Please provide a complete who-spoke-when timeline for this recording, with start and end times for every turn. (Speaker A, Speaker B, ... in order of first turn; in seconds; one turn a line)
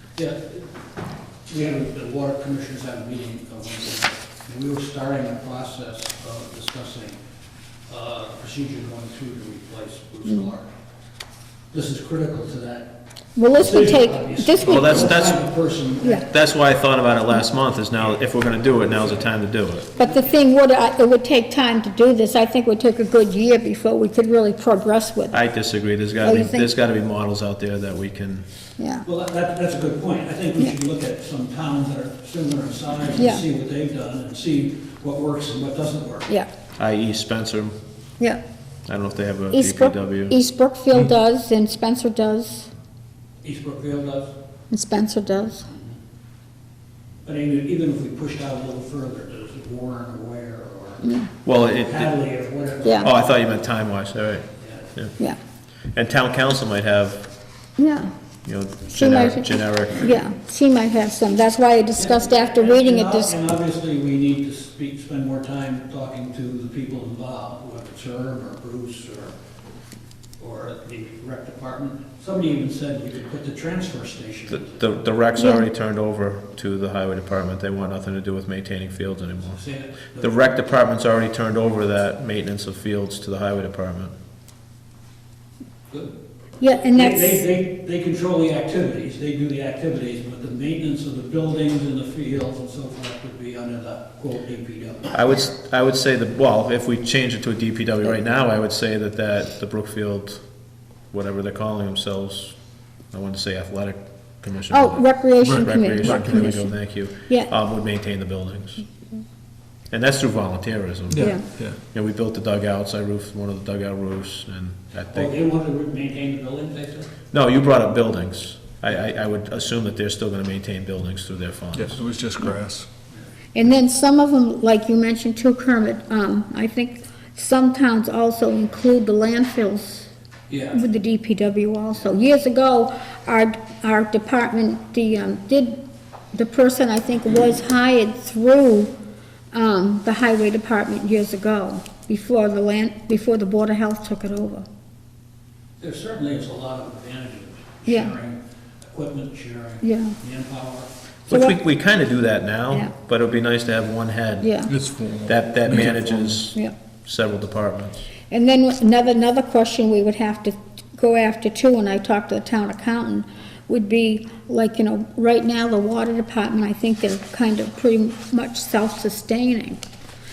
Speaker A: 0.1-0.7
Speaker A: 1.5-7.2
Speaker A: 7.9-10.7
Speaker B: 10.2-10.5
Speaker A: 11.7-12.9
Speaker B: 13.4-15.2
Speaker A: 13.5-16.4
Speaker C: 14.7-15.4
Speaker C: 16.3-19.9
Speaker A: 18.8-19.2
Speaker A: 19.9-20.3
Speaker B: 20.0-25.4
Speaker C: 25.3-28.4
Speaker B: 26.2-26.7
Speaker B: 28.8-29.1
Speaker A: 29.1-36.3
Speaker B: 33.2-33.4
Speaker C: 36.8-37.7
Speaker C: 38.9-40.4
Speaker B: 39.5-42.7
Speaker A: 43.4-44.3
Speaker B: 44.7-45.7
Speaker A: 45.7-45.9
Speaker A: 47.2-51.0
Speaker B: 51.0-51.3
Speaker C: 51.4-52.1
Speaker A: 51.7-53.3
Speaker B: 52.8-53.1
Speaker C: 53.0-55.1
Speaker A: 54.6-54.9
Speaker C: 55.9-57.3
Speaker B: 57.8-58.1
Speaker C: 58.4-60.1
Speaker B: 58.9-63.4
Speaker A: 62.0-69.3
Speaker A: 70.4-74.7
Speaker C: 74.5-79.6
Speaker B: 75.4-75.7
Speaker A: 79.5-80.4
Speaker C: 80.2-84.1
Speaker B: 86.6-87.4
Speaker A: 86.8-95.1
Speaker C: 95.1-100.4
Speaker C: 101.1-102.5
Speaker C: 103.1-108.8
Speaker B: 104.7-106.7
Speaker D: 105.4-106.5
Speaker C: 109.9-115.3
Speaker D: 111.1-111.8
Speaker B: 111.2-111.4
Speaker A: 115.1-117.1
Speaker C: 117.3-122.0
Speaker D: 121.7-122.9
Speaker B: 123.5-130.1
Speaker A: 130.5-130.8
Speaker B: 130.7-135.8
Speaker B: 136.3-138.9
Speaker B: 139.5-144.7
Speaker A: 145.8-150.9
Speaker B: 147.9-148.1
Speaker B: 149.8-150.2
Speaker B: 151.3-151.6
Speaker C: 151.3-154.5
Speaker B: 154.4-154.7
Speaker D: 154.7-156.4
Speaker C: 155.2-158.1
Speaker B: 158.3-169.8